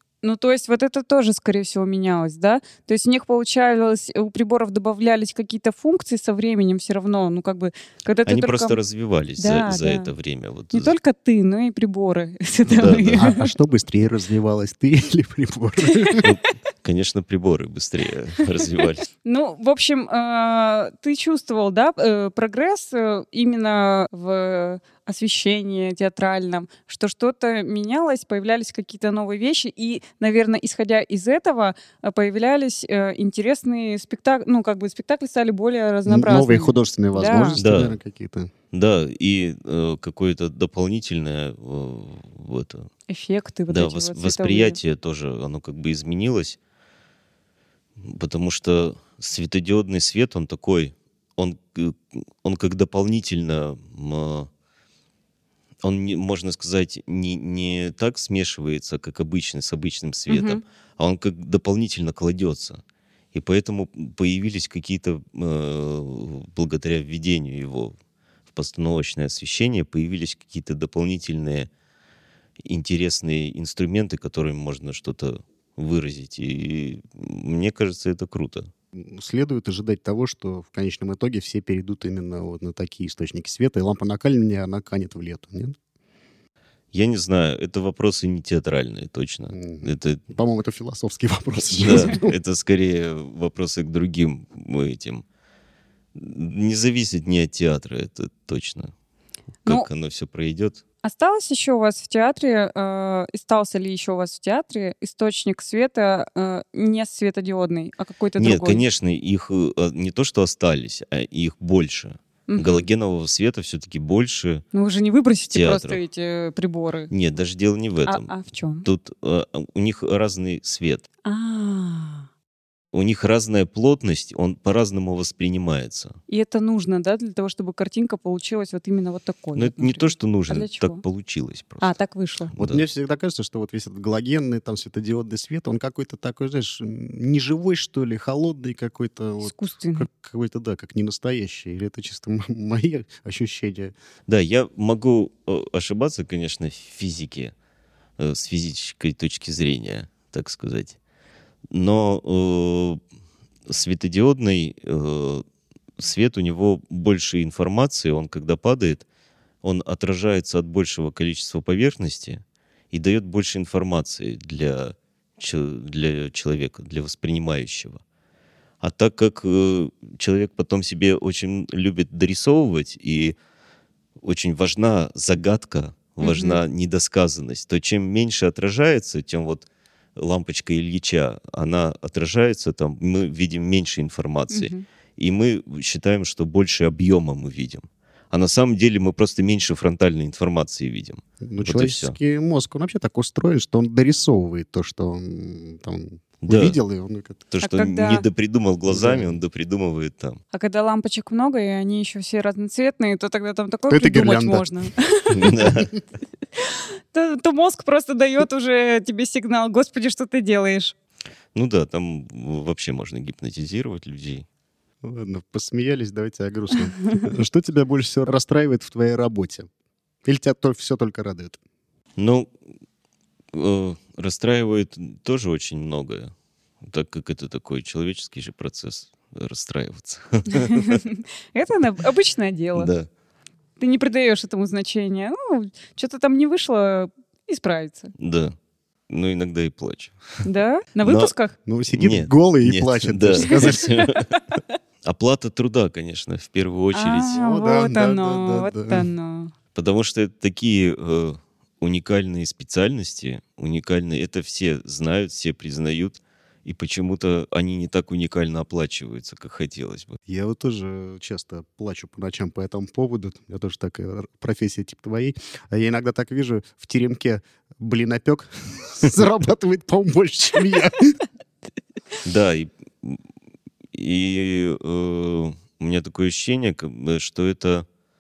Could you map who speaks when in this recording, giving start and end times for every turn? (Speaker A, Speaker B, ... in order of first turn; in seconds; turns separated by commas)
Speaker A: 0.2-8.8, Speaker B: 8.3-10.9, Speaker A: 9.4-10.1, Speaker A: 10.7-13.5, Speaker B: 12.7-13.3, Speaker C: 12.9-16.3, Speaker B: 16.2-19.1, Speaker A: 19.2-37.6, Speaker C: 36.1-38.5, Speaker B: 37.6-38.0, Speaker B: 38.7-42.9, Speaker A: 43.1-44.8, Speaker B: 43.7-46.6, Speaker B: 48.0-54.5, Speaker B: 55.8-62.8, Speaker A: 60.3-60.6, Speaker B: 63.3-68.0, Speaker B: 68.5-71.7, Speaker B: 72.6-78.7, Speaker C: 79.0-85.8, Speaker B: 86.9-90.2, Speaker C: 89.5-92.4, Speaker B: 91.8-95.2, Speaker B: 96.2-98.9, Speaker B: 99.7-100.8, Speaker A: 101.0-108.8, Speaker B: 108.4-114.7, Speaker A: 112.5-112.9, Speaker A: 114.7-117.1, Speaker B: 115.5-116.0, Speaker B: 117.1-118.3, Speaker A: 118.1-118.9, Speaker B: 118.8-121.0, Speaker A: 121.2-122.3, Speaker B: 122.9-126.2, Speaker A: 126.3-131.0, Speaker B: 129.6-131.9, Speaker A: 131.8-132.5, Speaker B: 132.5-132.8, Speaker C: 132.6-143.9, Speaker A: 139.4-140.1, Speaker B: 144.3-147.5, Speaker B: 148.2-151.0, Speaker B: 151.7-153.0, Speaker B: 153.7-155.4, Speaker B: 156.0-159.1, Speaker B: 159.6-168.0, Speaker B: 168.8-173.3, Speaker B: 174.2-179.7, Speaker A: 176.2-176.6, Speaker B: 180.2-192.2, Speaker A: 184.5-184.8, Speaker C: 191.4-197.4, Speaker B: 196.4-196.8, Speaker B: 197.5-200.4, Speaker A: 197.6-198.3, Speaker C: 198.9-199.4, Speaker A: 200.5-205.5, Speaker C: 203.9-204.7, Speaker B: 205.3-205.9, Speaker C: 205.5-206.0, Speaker A: 206.6-210.9, Speaker B: 211.5-214.4, Speaker C: 215.0-219.7, Speaker C: 220.2-221.6, Speaker B: 222.2-222.5, Speaker B: 223.5-226.3, Speaker B: 226.8-231.0, Speaker A: 230.5-232.9, Speaker B: 232.8-233.1, Speaker A: 233.8-238.1, Speaker B: 238.2-238.6, Speaker B: 239.1-240.4, Speaker A: 240.4-241.6, Speaker B: 241.0-241.3, Speaker C: 241.7-243.9, Speaker B: 241.9-244.3, Speaker A: 244.0-244.8, Speaker B: 245.1-247.3, Speaker A: 246.9-249.5, Speaker C: 247.3-249.1, Speaker B: 249.8-260.2, Speaker C: 260.3-271.2, Speaker B: 272.2-273.2, Speaker B: 273.9-277.9